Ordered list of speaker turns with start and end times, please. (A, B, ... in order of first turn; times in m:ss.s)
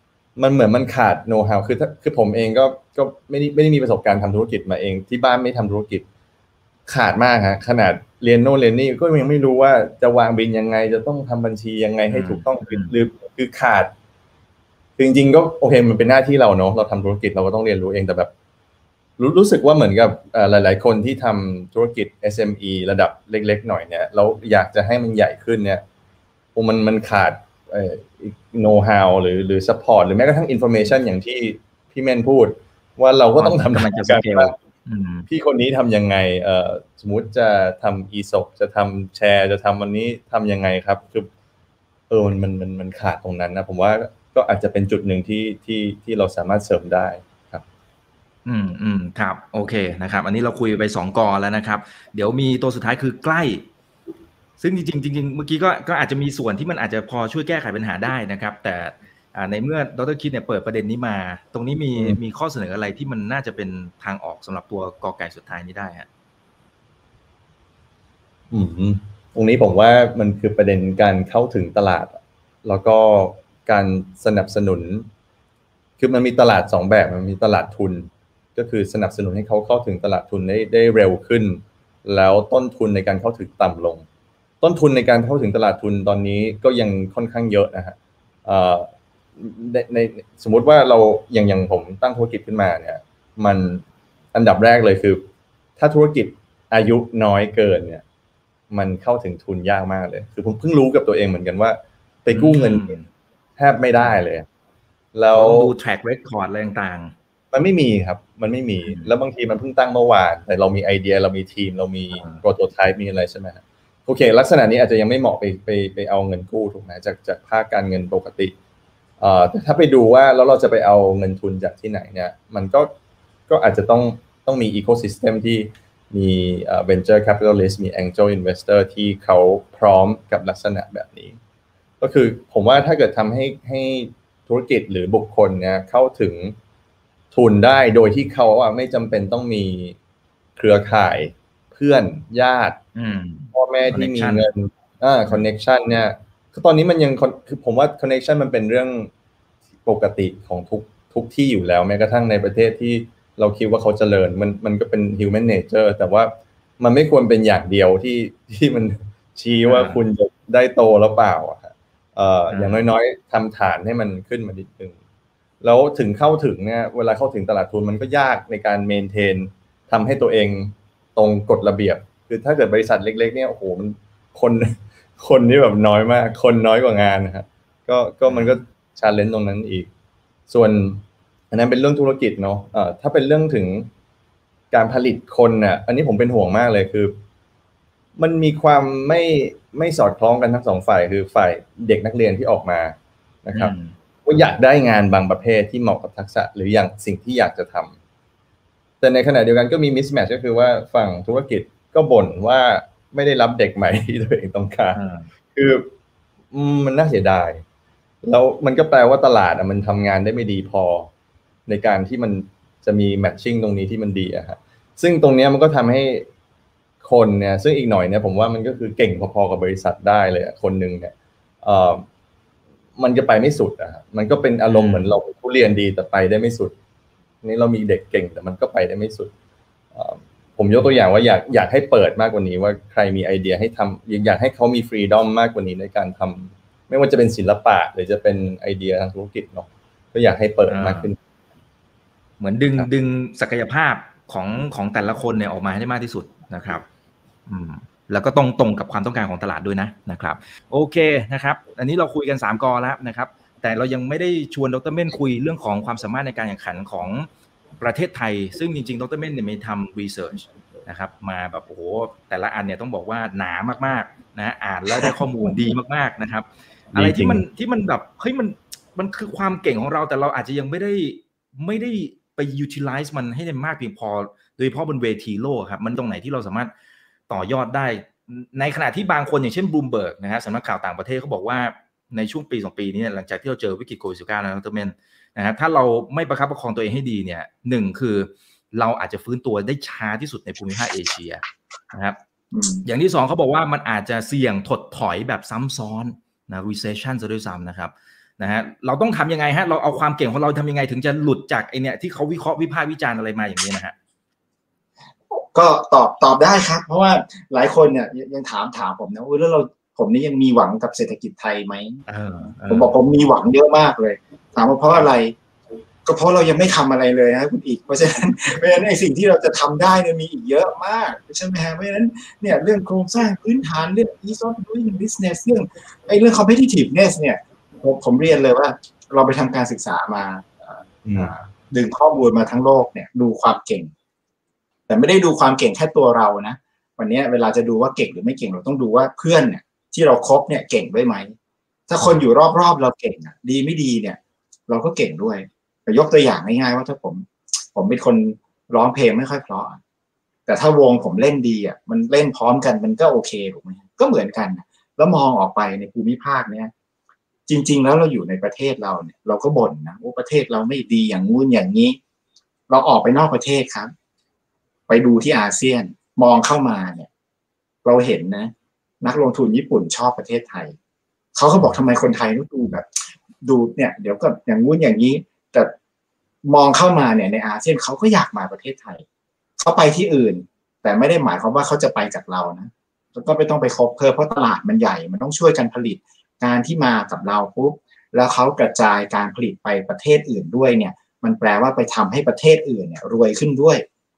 0:00.4-0:06.0 A
0:06.9-0:13.9 A
0:12.1-0:12.9 B
0:15.0-0:18.3 A
0:19.2-0:25.8 A
0:26.6-0:34.6 A
0:33.4-0:35.3 B
0:35.3-0:41.3 A
0:42.1-0:47.6 A
0:48.4-0:53.7 B
0:54.6-1:06.1 B
1:08.5-1:15.1 A
1:16.0-1:24.1 A
1:24.6-1:35.3 A
1:35.8-1:38.0 A
1:38.7-1:43.0 A
1:42.3-1:43.1 B
1:43.6-1:44.5 A
1:45.1-1:45.7 A
1:45.3-1:47.1 B
1:47.5-1:58.5 A
1:48.8-1:49.1 B
1:52.2-1:52.4 B
1:59.2-2:02.9 A
2:03.5-2:11.4 A
2:12.0-2:16.6 A
2:17.3-2:20.0 A
2:20.6-2:22.8 A
2:23.0-2:24.5 B
2:23.5-2:29.1 A
2:29.8-2:45.0 A
2:39.7-2:40.0 B
2:42.5-2:42.8 B
2:45.6-2:59.9 A
2:58.2-2:58.6 B
3:00.5-3:03.9 A
3:04.7-3:07.2 A
3:08.2-3:13.7 A
3:13.5-3:14.0 B
3:14.2-3:18.0 A
3:19.0-3:25.0 A
3:24.9-3:25.3 B
3:25.5-3:25.9 A
3:26.5-3:27.6 A
3:28.2-3:31.1 A
3:31.7-3:36.3 A
3:37.0-3:42.0 A
3:43.0-3:46.8 A
3:44.7-3:45.2 B
3:47.4-3:49.3 A
3:49.9-4:01.2 A
4:00.7-4:01.1 B
4:02.4-4:06.8 B
4:07.5-4:17.3 B
4:17.8-4:36.7 B
4:26.9-4:27.4 A
4:37.3-4:52.2 B
4:52.5-4:52.8 C
4:52.8-5:04.0 B
5:05.3-5:12.0 C
5:12.1-5:12.9 B
5:12.7-5:15.4 C
5:16.1-5:33.9 C
5:31.1-5:31.3 A
5:34.9-5:41.3 C
5:41.9-5:49.8 C
5:50.5-5:56.7 C
5:57.5-6:02.0 C
6:02.7-6:03.9 C
6:04.9-6:07.1 C
6:07.8-6:08.5 C
6:09.0-6:10.8 C
6:11.4-6:15.7 C
6:16.4-6:19.0 C
6:19.6-6:33.8 C